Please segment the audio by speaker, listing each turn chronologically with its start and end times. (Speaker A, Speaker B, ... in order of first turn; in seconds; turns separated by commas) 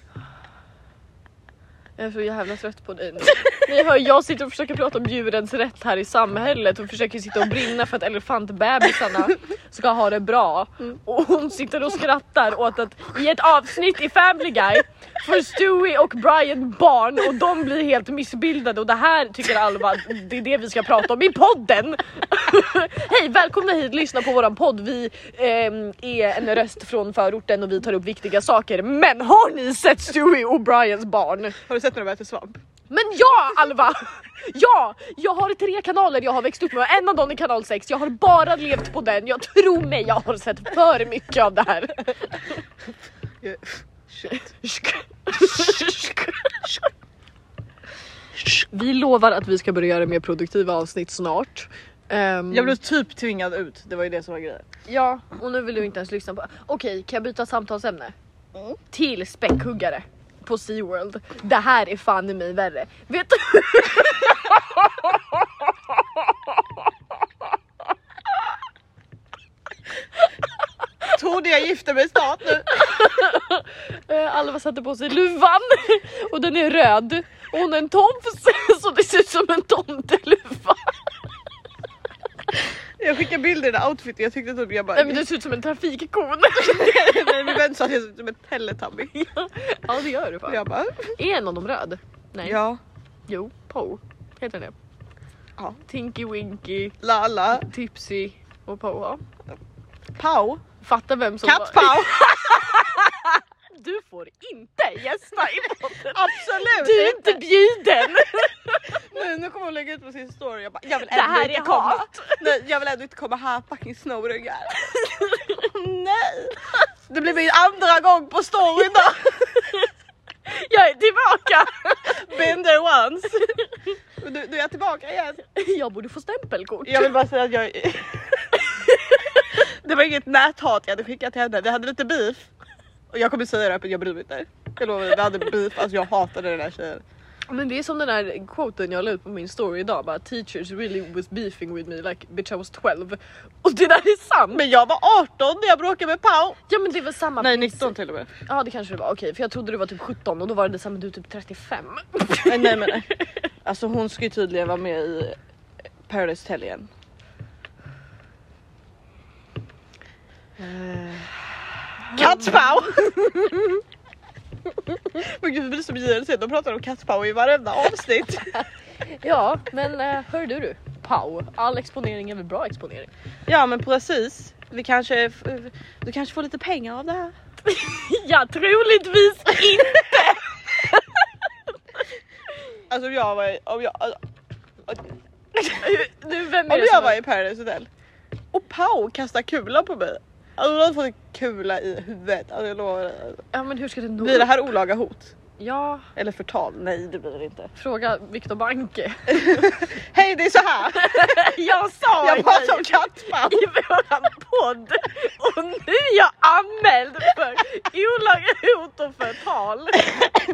Speaker A: 2.0-31.6, Speaker B: 31.7-32.6, Speaker A: 32.9-42.6, Speaker B: 43.4-44.4, Speaker A: 44.3-46.7, Speaker A: 48.5-52.8, Speaker B: 52.5-54.7, Speaker A: 54.9-58.1, Speaker A: 58.9-66.8, Speaker B: 71.1-72.9, Speaker A: 72.7-81.0, Speaker B: 83.0-85.2, Speaker A: 84.9-87.6, Speaker B: 86.6-89.2, Speaker A: 89.3-90.7, Speaker B: 90.5-91.2, Speaker A: 91.2-92.6, Speaker B: 92.5-92.8, Speaker A: 93.3-94.8, Speaker A: 95.9-97.0, Speaker B: 97.0-97.7, Speaker A: 97.5-99.2, Speaker B: 100.2-100.6, Speaker A: 100.8-109.0, Speaker B: 101.4-102.4, Speaker B: 106.1-107.4, Speaker B: 108.9-114.8, Speaker A: 110.9-112.5, Speaker A: 114.8-115.7, Speaker B: 115.6-119.7, Speaker A: 120.5-122.5, Speaker B: 122.2-123.6, Speaker B: 124.2-125.4, Speaker A: 125.5-127.2, Speaker B: 126.8-128.7, Speaker A: 128.6-129.6, Speaker B: 129.5-132.5, Speaker B: 133.1-137.0, Speaker A: 137.5-144.7, Speaker B: 144.5-146.6, Speaker A: 146.7-147.9, Speaker B: 147.4-148.3, Speaker A: 148.5-153.3, Speaker B: 152.5-153.1, Speaker B: 153.6-155.4, Speaker B: 156.1-156.9, Speaker A: 160.6-161.3, Speaker A: 162.0-162.6, Speaker B: 162.1-163.8, Speaker B: 165.1-168.5, Speaker A: 168.5-173.1, Speaker B: 173.5-177.3, Speaker A: 177.7-181.3, Speaker B: 182.9-184.2, Speaker A: 185.6-187.2, Speaker B: 186.7-187.9, Speaker B: 188.5-193.4, Speaker A: 193.5-194.5, Speaker B: 194.2-195.4, Speaker A: 195.6-196.1, Speaker B: 196.2-197.7, Speaker A: 197.8-199.7, Speaker B: 199.3-201.2, Speaker A: 200.9-210.3, Speaker B: 202.1-203.7